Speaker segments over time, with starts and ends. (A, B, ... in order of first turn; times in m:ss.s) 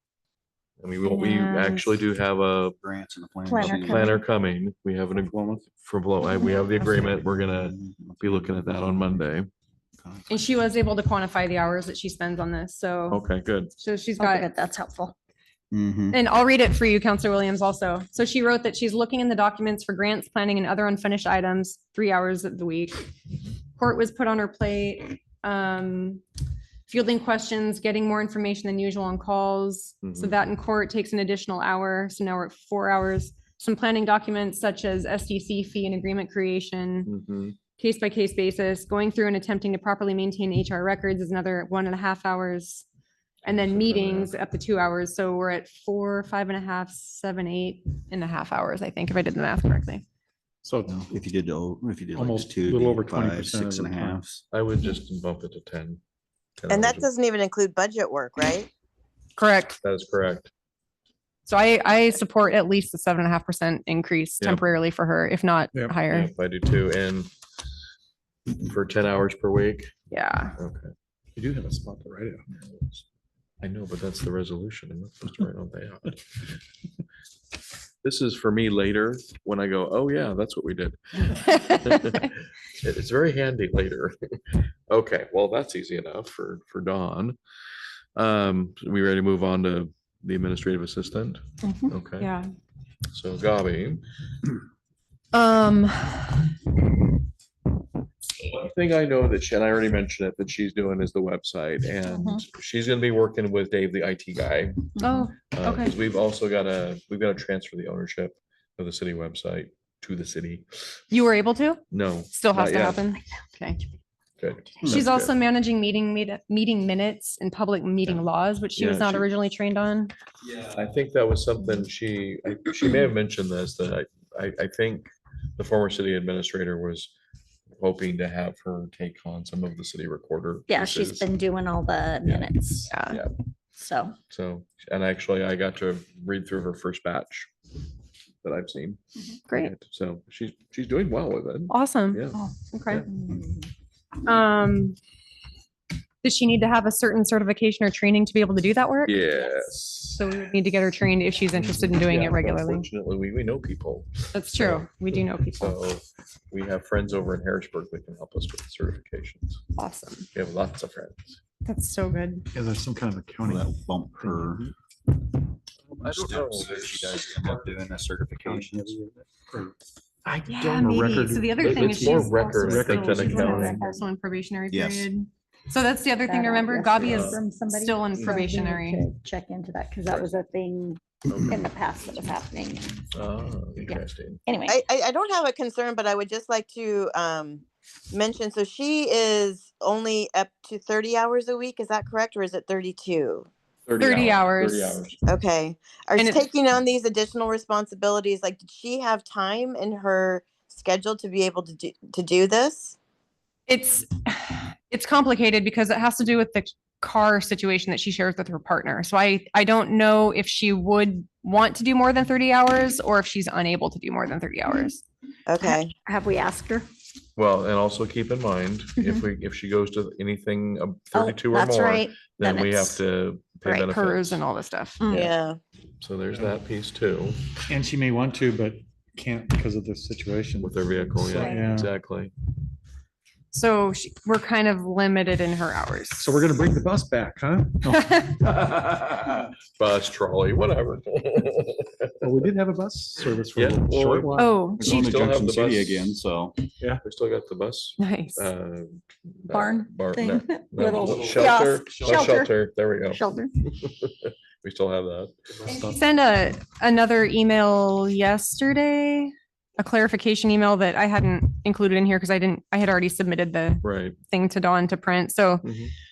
0:00.8-0:02.8 A
0:01.0-0:01.9 B
0:02.8-0:04.2 C
0:03.4-0:04.2 D
0:03.6-0:09.5 A
0:05.3-0:05.6 C
0:06.8-0:09.3 C
0:10.0-0:10.3 C
0:10.3-0:13.2 B
0:13.1-0:13.7 A
0:13.8-0:14.5 B
0:14.2-0:15.1 D
0:15.7-0:16.2 C
0:16.1-0:23.1 B
0:23.8-0:26.2 B
0:26.9-0:37.1 B
0:30.0-0:30.4 A
0:37.0-0:37.6 A
0:37.8-0:42.8 B
0:43.4-0:50.0 B
0:43.5-0:44.3 A
0:50.6-0:51.1 E
0:50.9-0:54.4 C
0:52.1-0:54.2 E
0:54.5-0:56.0 A
0:56.6-0:57.1 A
0:56.7-0:58.7 F
0:59.4-0:59.8 B
0:59.8-1:00.5 A
1:01.5-1:06.3 B
1:06.1-1:07.3 A
1:08.6-1:09.9 A
1:10.1-1:10.6 B
1:10.6-1:10.9 A
1:11.4-1:12.4 E
1:12.5-1:13.0 A
1:13.6-1:16.2 A
1:18.0-1:24.2 A
1:24.9-1:27.4 A
1:28.2-1:32.3 A
1:31.6-1:31.9 D
1:32.2-1:32.5 B
1:33.1-1:34.0 A
1:35.3-1:36.4 B
1:38.6-1:50.6 A
1:42.0-1:42.4 D
1:45.0-1:46.0 B
1:51.1-1:53.8 B
1:51.9-1:53.0 A
1:54.4-1:55.3 A
1:54.8-2:00.1 B
1:58.8-1:59.3 A
2:00.7-2:07.1 A
2:07.8-2:11.3 A
2:10.7-2:12.9 D
2:12.2-2:12.5 A
2:12.9-2:13.2 B
2:13.0-2:13.3 A
2:13.8-2:14.2 D
2:14.3-2:17.5 A
2:18.4-2:19.0 A
2:19.5-2:23.0 A
2:21.7-2:23.0 B
2:23.0-2:23.7 D
2:24.2-2:25.0 B
2:26.2-2:29.6 B
2:29.0-2:30.2 A
2:30.1-2:32.9 B
2:31.5-2:34.9 A
2:34.3-2:35.8 B
2:35.6-2:39.6 A
2:39.8-2:40.3 B
2:40.3-2:41.4 A
2:41.6-2:42.5 B
2:42.5-2:44.7 E
2:43.4-2:44.7 C
2:45.9-2:47.6 A
2:46.0-2:49.0 C
2:48.4-2:49.7 E
2:50.2-2:53.8 A
2:50.5-2:59.0 B
2:50.8-2:53.8 E
2:53.3-2:54.0 D
2:54.7-2:55.1 C
2:56.2-3:03.0 D
2:57.0-2:57.4 A
2:58.1-2:58.4 A
3:01.3-3:01.7 A
3:03.1-3:04.4 A
3:03.8-3:04.8 D
3:04.7-3:13.5 F
3:13.9-3:15.2 A
3:14.0-3:15.1 B
3:15.3-3:22.9 F
3:16.2-3:16.5 B
3:23.7-3:35.0 B
3:35.5-3:35.9 F
3:35.6-3:36.8 D
3:37.4-3:44.4 A
3:41.1-3:43.0 D
3:43.6-3:45.0 B
3:45.0-3:45.3 D
3:45.1-3:45.6 F
3:46.0-3:47.5 A
3:46.3-3:46.6 E
3:47.7-3:51.9 E
3:50.6-3:52.3 A
3:51.3-3:51.7 D
3:53.5-3:56.3 B
3:56.2-3:58.2 E
3:58.0-3:58.3 B
3:58.6-3:58.9 A
3:59.8-4:02.3 A
4:02.2-4:04.7 E
4:03.5-4:06.2 A
4:04.4-4:05.0 B
4:04.8-4:06.6 C
4:07.0-4:13.2 A
4:08.0-4:08.5 B
4:09.5-4:13.5 D
4:10.9-4:11.5 E
4:13.8-4:15.3 A
4:15.6-4:16.0 E
4:15.8-4:25.6 B
4:23.8-4:24.2 A
4:25.6-4:25.9 A